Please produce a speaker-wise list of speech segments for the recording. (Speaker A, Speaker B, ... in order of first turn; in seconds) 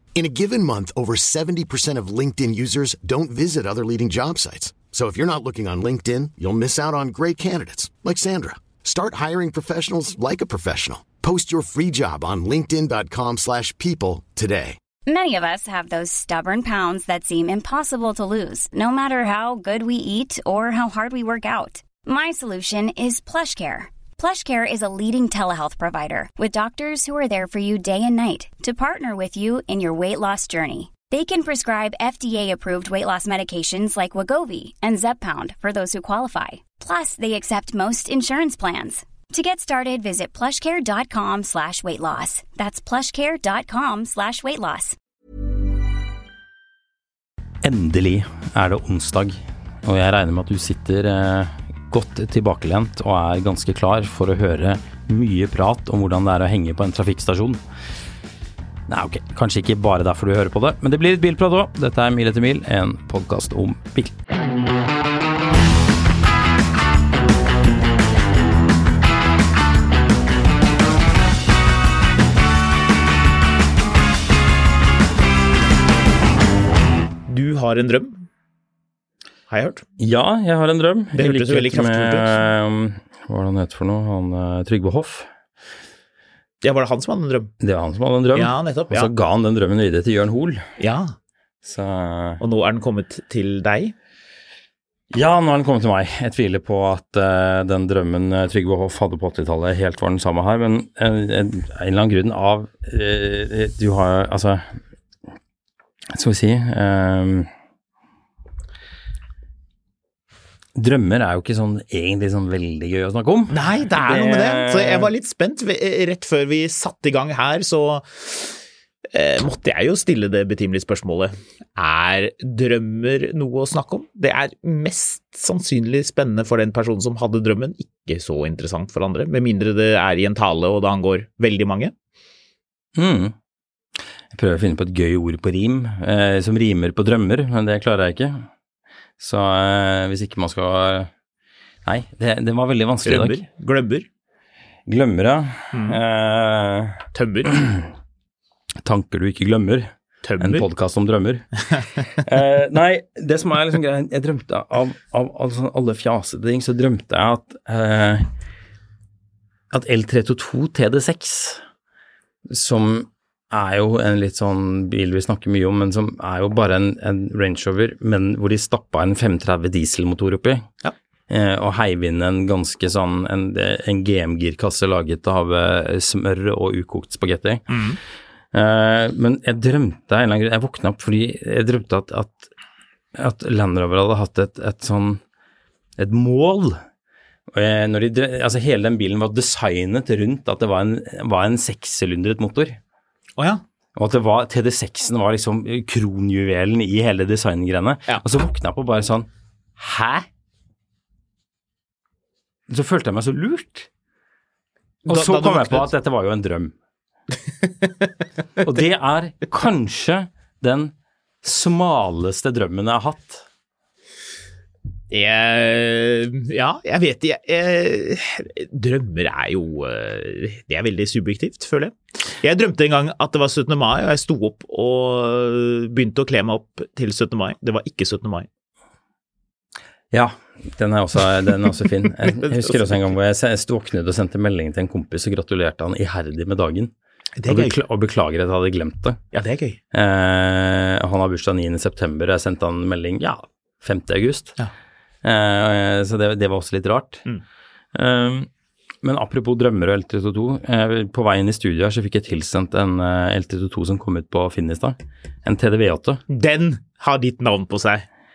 Speaker A: 0.1-14.8
Speaker B: 15.1-45.0
Speaker C: 47.6-57.6, 58.9-64.1, 80.0-85.3, 87.6-90.7, 91.6-92.4, 95.1-104.7, 106.1-107.5, 110.8-115.1, 133.0-133.3, 134.3-138.5, 139.2-141.1, 141.8-143.4, 144.9-147.9, 148.8-151.4, 152.2-158.3, 159.7-161.6, 162.5-170.7, 171.3-177.7, 178.5-182.5, 183.2-185.2, 186.0-186.8, 187.5-192.8, 194.0-200.3, 202.7-203.9, 205.1-206.7, 208.6-213.4, 230.1-236.9, 237.5-239.2, 239.9-244.6, 245.2-247.2, 247.9-248.5, 249.0-256.2
Speaker D: 77.3-78.2, 79.5-79.8, 81.2-82.4, 86.6-87.5, 88.3-89.1, 90.8-91.1, 92.4-93.9, 113.5-118.6, 119.1-131.9, 143.1-144.1, 145.7-146.0, 147.1-147.5, 150.2-150.7, 177.7-178.0, 193.4-193.6, 205.1-205.9, 215.1-228.5, 232.4-233.0, 237.4-237.8, 239.3-239.8, 256.3-258.1